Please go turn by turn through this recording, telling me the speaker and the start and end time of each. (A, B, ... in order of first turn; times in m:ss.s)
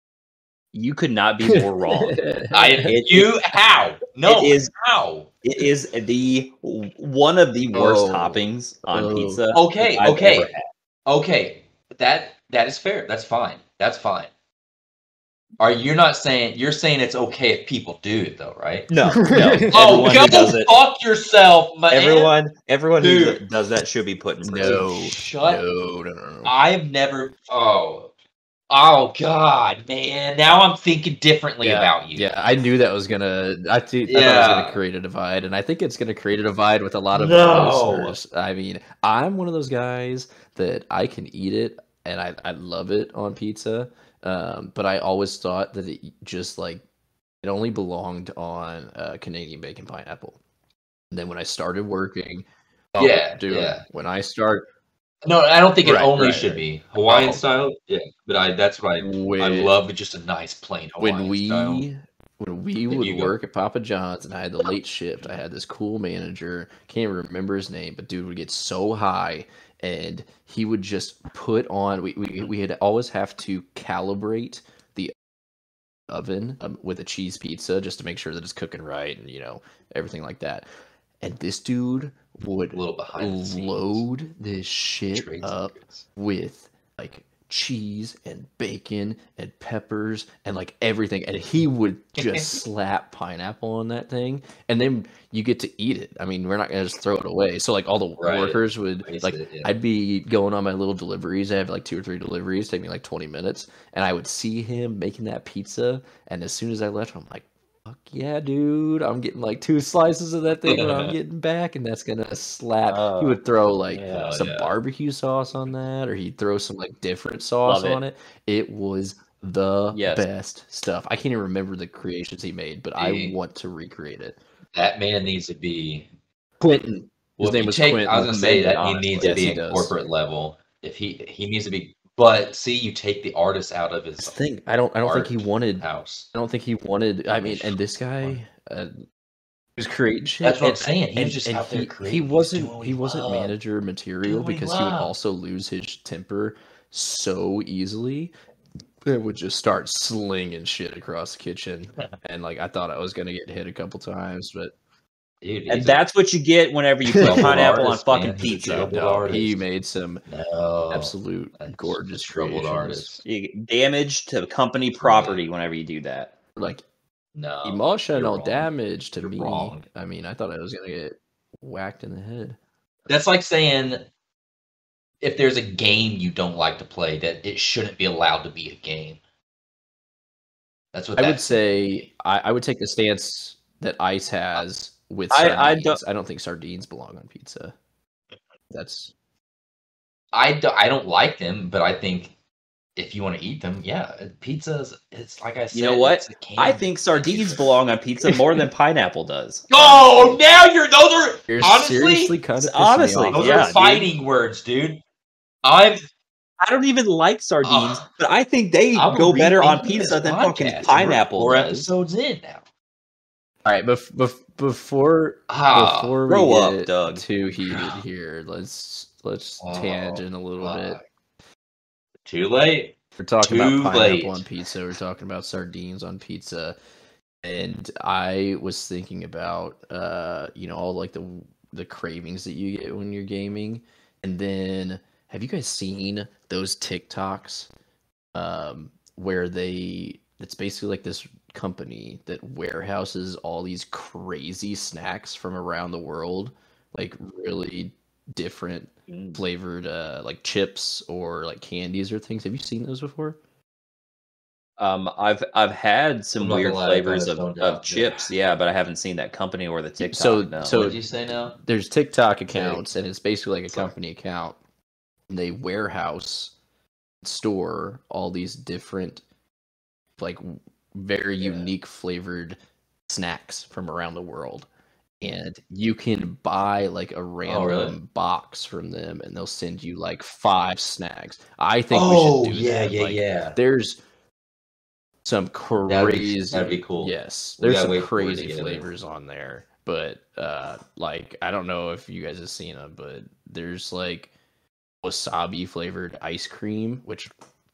0:00.7-0:02.3 A
0:01.4-0:02.9 B
0:02.5-0:05.4 C
0:04.2-0:04.7 A
0:05.4-0:10.6 A
0:07.7-0:09.4 B
0:09.5-0:10.5 C
0:11.1-0:14.3 C
0:15.6-0:18.9 C
0:18.9-0:20.8 A
0:19.2-0:19.8 B
0:19.7-0:22.3 C
0:21.9-0:24.8 A
0:23.0-0:23.4 C
0:24.4-0:26.5 B
0:24.6-0:25.6 C
0:26.4-0:28.1 C
0:28.7-0:32.3 C
0:31.6-0:31.9 A
0:32.1-0:46.8 B
0:34.1-0:34.8 C
0:37.1-0:38.2 C
0:47.4-0:50.4 B
0:51.1-0:54.6 B
0:53.0-0:53.8 C
0:55.2-1:01.8 C
0:55.8-0:57.4 B
0:59.0-0:59.7 B
1:01.0-1:15.1 B
1:02.9-1:03.3 C
1:16.1-1:20.7 B
1:21.2-2:04.4 B
1:22.7-1:24.0 C
1:25.1-1:26.1 C
1:32.2-1:32.6 C
1:38.2-1:39.7 C
1:50.7-1:51.2 C
1:52.9-1:53.4 A
1:53.9-1:54.4 A
1:54.0-1:54.7 C
1:57.6-1:58.0 A
1:59.9-2:00.3 A
2:03.0-2:03.4 C
2:04.7-2:06.1 C
2:06.6-2:09.9 B
2:07.4-2:14.4 C
2:09.2-2:09.6 A
2:14.2-2:18.9 B
2:15.0-2:16.3 C
2:17.3-2:18.4 C
2:19.8-2:28.3 B
2:20.4-2:23.5 C
2:24.2-2:25.1 C
2:29.0-2:34.7 B
2:35.4-2:36.0 C
2:35.7-2:39.3 A
2:37.1-2:37.8 B
2:37.2-2:39.6 C
2:38.4-2:40.2 B
2:40.3-2:43.2 C
2:40.9-2:43.1 B
2:43.2-2:46.3 A
2:45.0-2:45.4 C
2:46.6-2:46.8 B
2:47.4-2:49.8 C
2:47.6-2:52.6 B
2:53.1-2:54.1 C
2:55.2-2:59.2 C
3:00.9-3:02.0 C
3:01.2-3:07.8 B
3:05.3-3:06.0 A
3:08.7-3:09.1 B
3:10.3-3:12.4 C
3:13.0-3:17.8 C
3:15.7-3:20.4 A
3:19.7-3:22.4 C
3:21.5-3:23.8 B
3:22.6-3:24.1 A
3:23.3-3:25.0 C
3:25.6-3:26.0 C
3:26.6-3:31.9 A
3:27.6-3:28.0 C
3:28.9-3:32.6 C
3:33.6-3:41.0 B
3:35.5-3:36.2 C
3:36.3-3:37.2 A
3:37.6-3:38.0 C
3:39.6-3:41.0 C
3:42.2-3:44.4 C
3:43.2-3:46.8 B
3:47.4-3:57.7 B
3:58.3-4:13.4 B
4:09.1-4:09.4 A
4:14.8-4:20.9 A
4:16.4-4:18.3 C
4:20.0-4:21.0 B
4:20.6-4:21.6 C
4:21.6-4:24.6 B
4:22.5-4:22.8 C
4:25.3-4:26.5 B
4:27.2-4:29.2 B
4:30.2-4:34.7 B
4:31.4-4:31.7 C
4:35.2-4:44.0 B
4:37.4-4:38.0 C
4:41.9-4:43.6 C
4:45.2-4:54.3 B
4:45.9-4:48.8 C
4:55.0-4:57.3 B